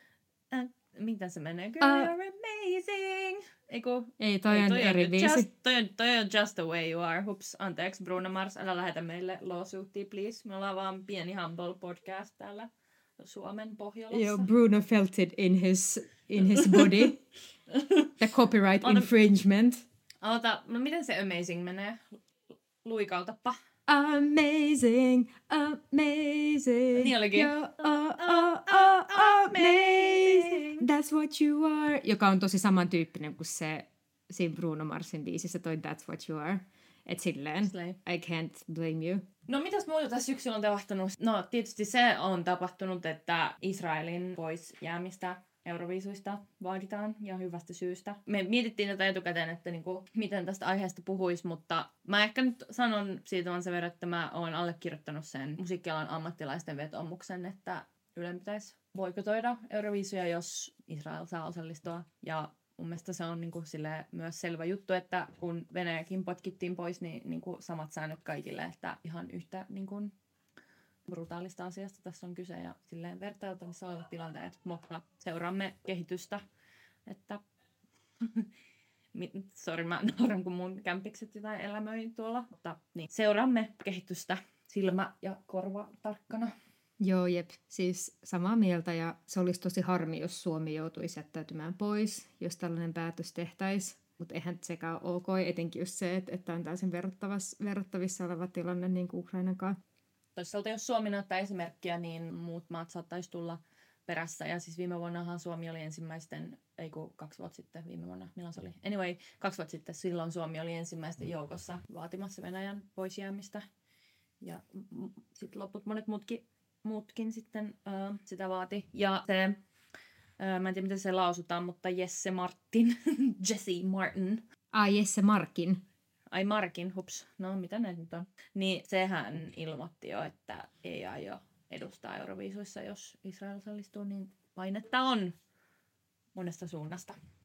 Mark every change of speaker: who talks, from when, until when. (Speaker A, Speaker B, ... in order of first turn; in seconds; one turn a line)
Speaker A: 0.5-14.5
Speaker B: 1.8-2.1
Speaker B: 4.2-5.5
Speaker B: 14.1-17.2
Speaker A: 16.5-17.1
Speaker A: 17.7-18.1
Speaker B: 18.2-19.8
Speaker A: 18.8-19.1
Speaker A: 20.2-22.1
Speaker A: 22.8-23.6
Speaker B: 23.9-39.3
Speaker A: 26.9-30.9
Speaker A: 37.6-38.0
Speaker A: 39.5-70.1
Speaker A: 71.1-76.4
Speaker A: 77.1-77.4
Speaker A: 78.2-78.5
Speaker A: 79.1-86.5
Speaker B: 87.0-99.8
Speaker A: 100.4-113.7
Speaker A: 114.4-119.6
Speaker A: 120.4-124.4
Speaker B: 124.7-125.8
Speaker A: 126.3-135.4
Speaker A: 136.3-137.2